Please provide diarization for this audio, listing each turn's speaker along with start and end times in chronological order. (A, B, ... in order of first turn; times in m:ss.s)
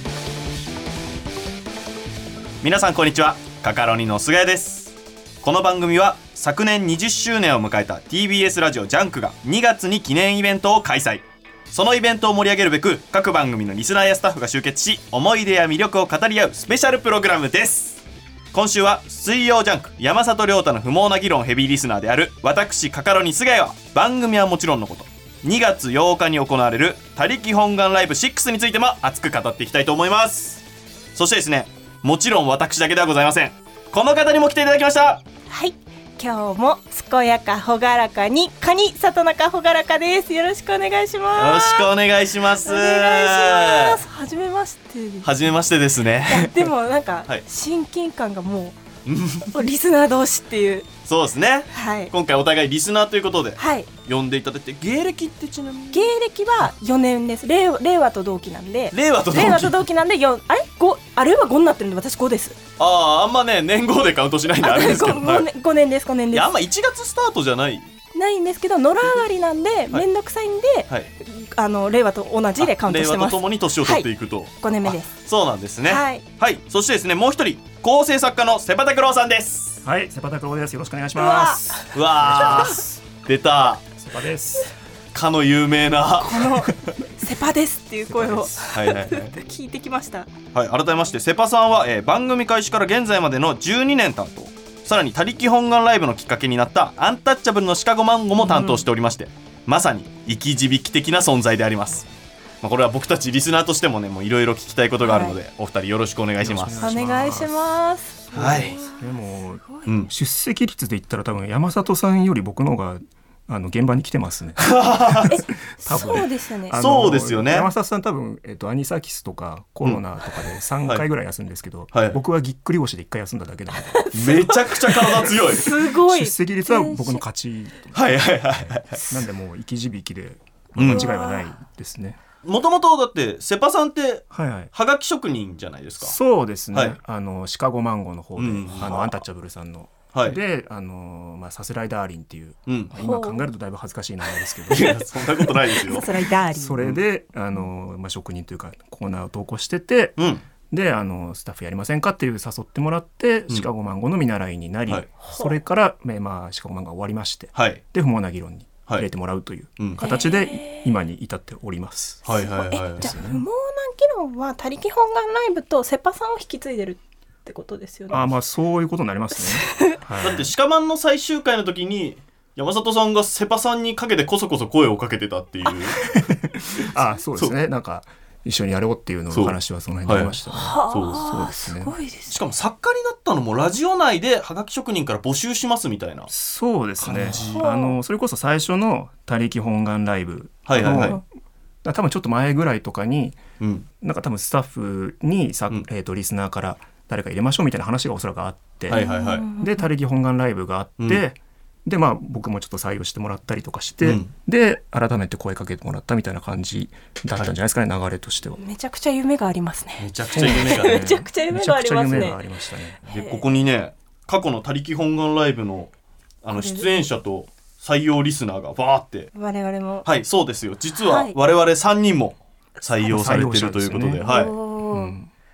0:02.6-0:30.6 A
0:31.1-0:35.2 A
0:35.5-0:41.9 B
0:41.4-0:44.0 A
0:42.6-0:45.3 B
0:45.2-0:46.7 A
0:46.2-0:48.8 B
0:49.0-0:49.6 A
0:49.5-0:50.9 B
0:51.0-0:56.1 A
0:51.7-0:52.1 B
0:53.6-0:53.9 B
0:55.9-1:02.6 B
0:58.9-0:59.8 A
1:02.8-1:05.5 A
1:04.6-1:06.5 B
1:06.3-1:07.9 A
1:08.1-1:14.1 B
1:12.6-1:19.8 A
1:14.6-1:15.1 B
1:15.8-1:16.2 B
1:19.8-1:23.0 C
1:21.2-1:22.8 B
1:21.9-1:23.8 A
1:24.0-1:24.7 C
1:25.1-1:26.6 A
1:26.2-1:30.3 B
1:26.7-1:27.0 C
1:28.1-1:28.7 C
1:28.7-1:29.3 A
1:30.5-1:42.1 A
1:38.4-1:38.8 B
1:42.6-1:46.8 A
1:45.0-1:45.4 B
1:46.4-1:47.6 C
1:46.8-1:49.9 B
1:48.2-2:04.1 C
1:48.3-1:48.8 A
1:49.8-1:50.1 A
1:54.6-1:55.4 A
1:55.3-1:56.8 B
1:56.8-1:57.7 A
2:01.9-2:02.2 A
2:03.9-2:07.2 B
2:04.1-2:05.7 A
2:05.8-2:08.2 C
2:07.9-2:09.0 A
2:08.9-2:09.2 B
2:09.1-2:12.2 C
2:10.8-2:11.1 A
2:10.8-2:11.5 B
2:12.4-2:16.2 A
2:14.3-2:14.7 C
2:16.0-2:25.2 C
2:18.4-2:19.2 A
2:22.7-2:22.9 A
2:23.0-2:23.4 B
2:24.7-2:26.1 A
2:25.7-2:26.8 B
2:26.5-2:42.4 C
2:30.2-2:30.4 A
2:35.2-2:35.6 B
2:37.5-2:37.8 A
2:39.8-2:40.0 A
2:40.0-2:40.9 B
2:42.2-2:43.1 A
2:42.3-2:48.3 B
2:43.0-2:43.4 C
2:48.1-2:50.5 C
2:49.3-2:50.0 B
2:50.2-2:56.1 A
2:55.9-2:56.2 B
2:56.2-3:01.9 C
2:59.3-3:00.4 A
3:00.5-3:02.4 B
3:00.9-3:01.2 A
3:02.3-3:06.3 A
3:06.3-3:11.2 C
3:07.0-3:07.6 A
3:07.5-3:08.0 B
3:10.6-3:11.2 A
3:11.8-3:13.4 C
3:13.6-3:13.8 A
3:14.0-3:28.6 C
3:18.9-3:19.4 A
3:18.9-3:19.9 B
3:24.0-3:24.3 A
3:28.6-3:32.4 B
3:30.0-3:31.2 A
3:30.3-3:33.0 C
3:33.0-3:33.4 B
3:33.1-3:35.9 A
3:36.4-3:39.3 A
3:36.5-3:37.0 B
3:39.3-3:40.1 B
3:40.0-3:44.5 A
3:41.0-3:41.4 B
3:43.0-3:44.3 C
3:44.2-3:45.2 B
3:44.9-3:45.3 C